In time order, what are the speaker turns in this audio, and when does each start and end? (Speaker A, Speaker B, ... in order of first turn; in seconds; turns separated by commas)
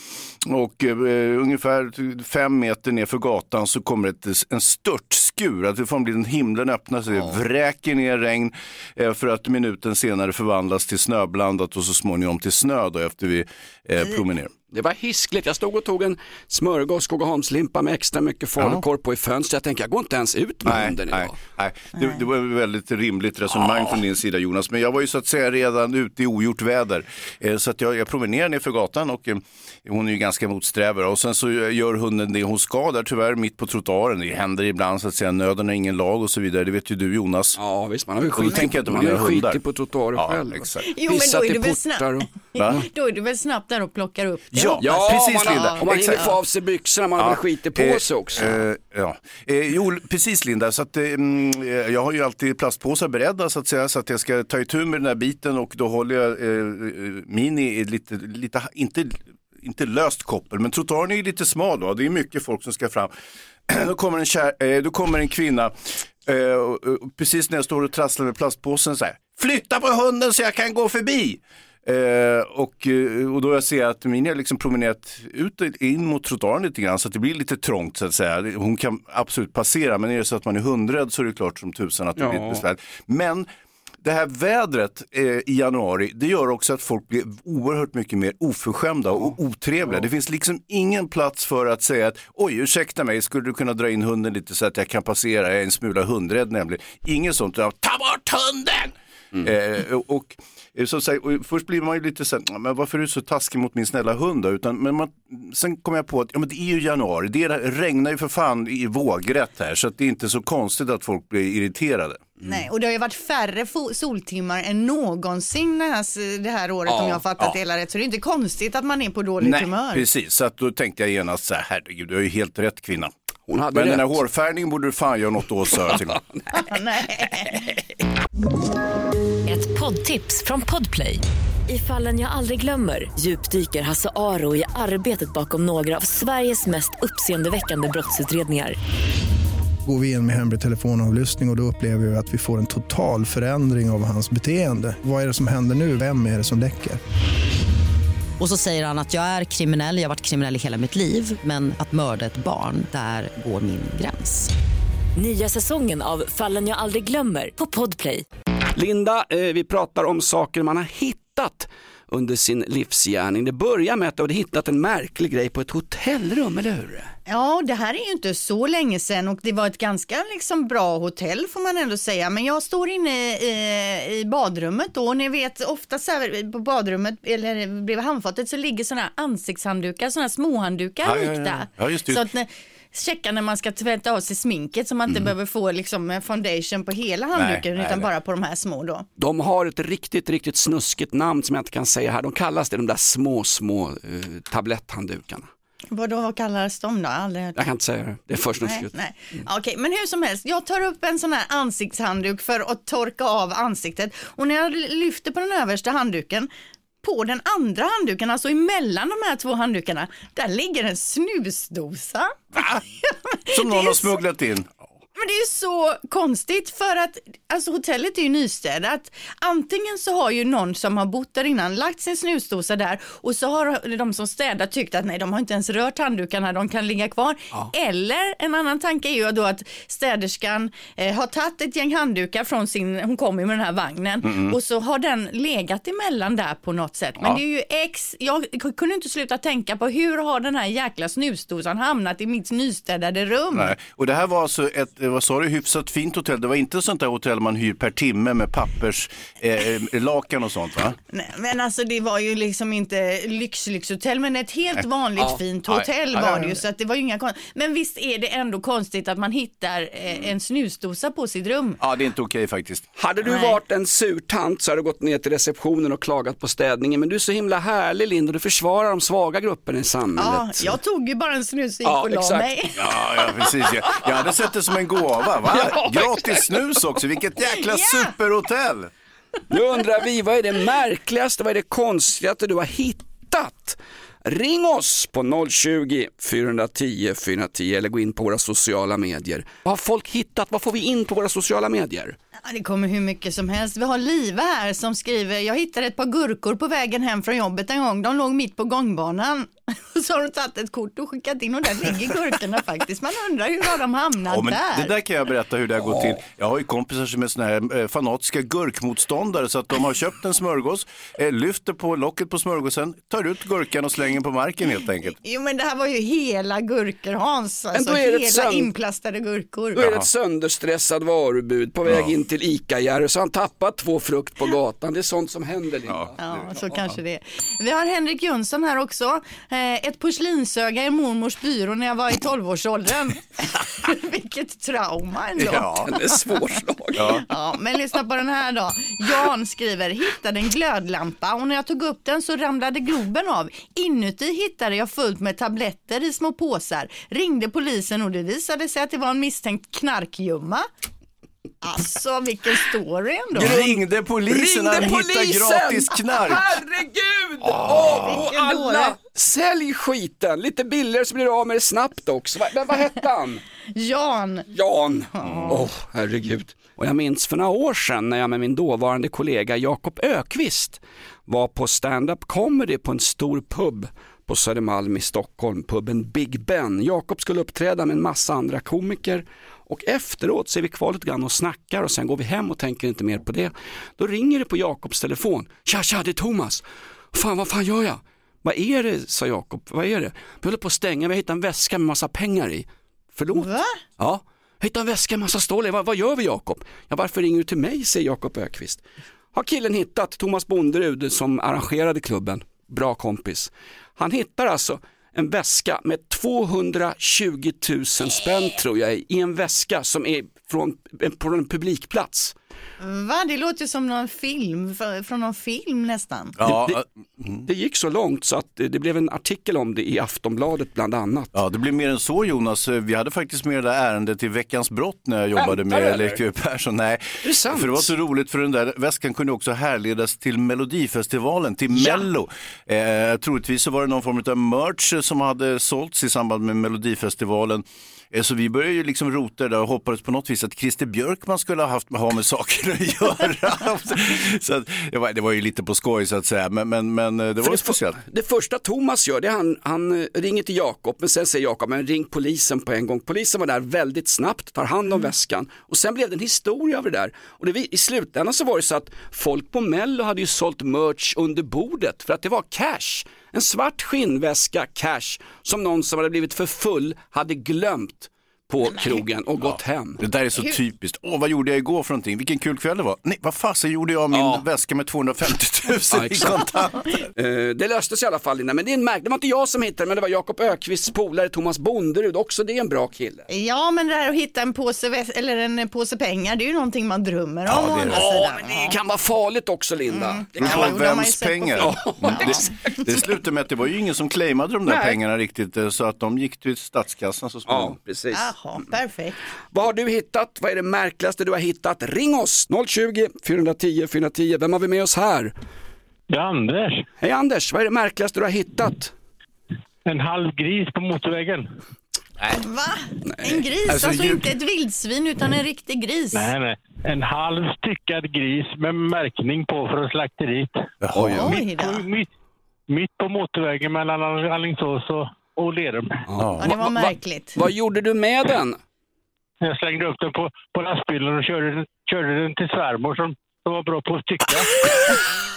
Speaker A: 0.4-14.5, Speaker B: 14.7-21.4, Speaker A: 20.7-37.6, Speaker B: 37.6-42.3, Speaker A: 38.4-39.6, Speaker A: 40.2-40.9, Speaker C: 40.9-46.3, Speaker A: 42.6-42.8, Speaker A: 44.5-46.3, Speaker B: 44.8-48.6, Speaker A: 47.2-63.1, Speaker A: 63.7-83.5, Speaker B: 82.2-82.6, Speaker A: 84.0-112.3, Speaker C: 112.5-120.0, Speaker B: 116.9-117.2, Speaker A: 119.4-123.1, Speaker B: 123.5-124.2, Speaker A: 123.7-126.2, Speaker B: 125.8-126.5, Speaker C: 126.5-127.7, Speaker B: 127.5-127.8, Speaker D: 129.5-138.8, Speaker E: 139.8-147.0, Speaker F: 148.4-154.5, Speaker D: 155.2-158.3, Speaker B: 158.8-167.1, Speaker C: 167.3-189.1, Speaker A: 181.0-182.2, Speaker A: 187.3-188.1, Speaker B: 189.2-195.5, Speaker C: 195.9-197.7, Speaker B: 197.6-198.9, Speaker C: 198.6-206.5, Speaker C: 207.0-214.2, Speaker A: 212.5-212.8, Speaker A: 213.5-214.8, Speaker C: 215.2-243.8, Speaker A: 234.3-234.6, Speaker A: 243.6-251.0, Speaker C: 251.1-261.8, Speaker A: 255.7-256.6, Speaker A: 261.8-262.9, Speaker B: 263.0-270.8, Speaker C: 263.2-263.6, Speaker C: 270.2-272.8, Speaker B: 271.8-272.6, Speaker A: 272.8-278.9, Speaker B: 275.5-276.8, Speaker C: 277.7-278.1, Speaker B: 279.5-292.2, Speaker C: 292.4-304.9, Speaker A: 304.3-315.2, Speaker C: 315.2-319.8, Speaker B: 317.7-318.7, Speaker A: 319.8-320.1, Speaker B: 319.8-326.2, Speaker A: 325.9-326.4, Speaker C: 326.2-336.2, Speaker A: 335.4-335.9, Speaker B: 335.6-337.2, Speaker A: 337.0-337.2, Speaker C: 337.2-350.7, Speaker C: 351.6-353.6, Speaker B: 353.4-353.7, Speaker A: 353.4-356.6, Speaker B: 354.3-363.4, Speaker A: 357.5-358.1, Speaker C: 357.7-359.0, Speaker C: 363.7-364.5, Speaker B: 364.5-398.8, Speaker C: 365.2-365.6, Speaker A: 365.2-365.6, Speaker C: 393.3-393.8, Speaker B: 399.3-412.4, Speaker C: 412.8-416.4, Speaker A: 416.4-417.5, Speaker B: 416.4-416.8, Speaker B: 417.4-421.3, Speaker A: 421.3-448.0, Speaker B: 425.4-426.2, Speaker B: 427.2-427.9, Speaker B: 431.7-432.1, Speaker B: 447.4-470.0, Speaker A: 469.4-477.0, Speaker B: 474.1-474.4, Speaker B: 475.9-476.5, Speaker B: 477.1-483.3, Speaker C: 483.3-488.8, Speaker A: 487.5-488.1, Speaker B: 487.9-490.8, Speaker C: 489.9-492.2, Speaker A: 490.4-497.8, Speaker B: 491.6-493.1, Speaker B: 494.7-495.0, Speaker B: 497.5-498.3, Speaker C: 498.1-499.2, Speaker B: 499.5-505.3, Speaker G: 506.1-506.9, Speaker B: 507.0-508.9, Speaker G: 509.9-511.5, Speaker C: 512.4-516.4, Speaker B: 513.1-513.4, Speaker A: 513.7-514.3, Speaker G: 516.1-520.6, Speaker A: 520.8-521.4, Speaker B: 520.9-521.4, Speaker C: 521.2-521.9, Speaker G: 521.2-522.1, Speaker G: 522.7-526.0, Speaker B: 526.1-528.6, Speaker A: 526.2-526.5, Speaker C: 526.4-527.4, Speaker G: 529.4-535.0